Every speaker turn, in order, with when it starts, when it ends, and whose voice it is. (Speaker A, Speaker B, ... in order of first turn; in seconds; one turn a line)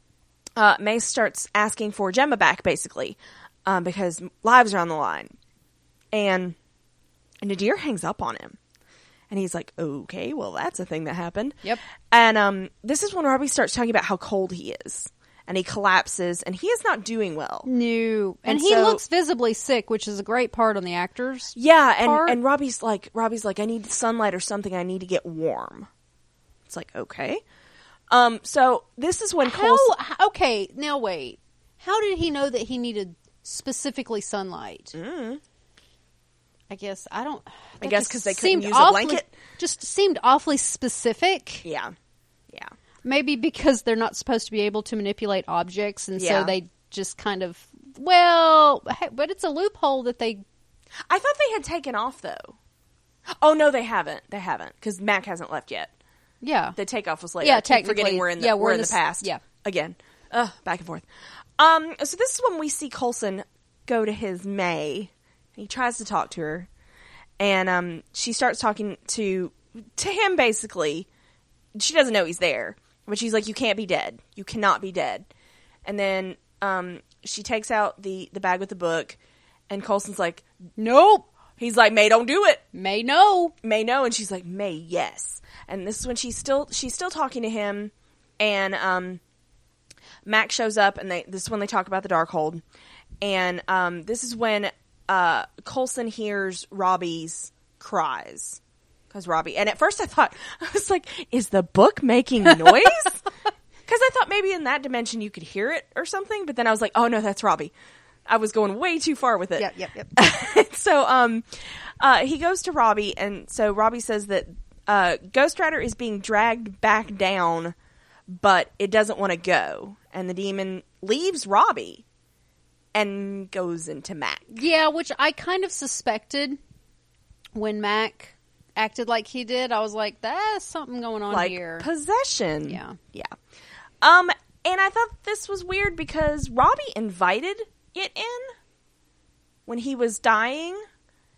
Speaker A: 0.6-5.3
Speaker A: 6.1-6.5
Speaker A: 7.4-8.6
Speaker A: 9.3-11.6
Speaker A: 12.1-17.7
Speaker B: 17.6-22.4
Speaker A: 18.4-19.0
Speaker A: 21.6-25.9
Speaker A: 26.7-27.4
Speaker A: 28.1-29.9
Speaker B: 29.4-34.9
Speaker A: 34.9-35.4
Speaker B: 36.7-41.6
Speaker A: 37.8-39.3
Speaker A: 41.6-41.9
Speaker B: 43.0-50.4
Speaker A: 46.2-46.5
Speaker A: 51.1-52.5
Speaker A: 53.4-55.9
Speaker B: 56.4-56.8
Speaker A: 56.8-61.0
Speaker B: 57.4-59.4
Speaker A: 61.6-66.7
Speaker A: 67.4-71.1
Speaker A: 71.8-75.3
Speaker A: 75.8-79.2
Speaker A: 79.7-80.4
Speaker B: 80.8-81.3
Speaker A: 81.6-82.6
Speaker B: 82.7-83.5
Speaker A: 83.6-89.2
Speaker A: 90.2-92.6
Speaker A: 93.2-98.6
Speaker A: 99.1-103.2
Speaker A: 103.9-107.7
Speaker A: 108.3-117.7
Speaker B: 109.6-110.1
Speaker A: 118.3-122.0
Speaker A: 122.9-124.5
Speaker B: 124.5-126.6
Speaker B: 127.5-131.8
Speaker A: 131.3-133.3
Speaker B: 132.7-133.0
Speaker A: 134.0-138.5
Speaker A: 139.7-140.8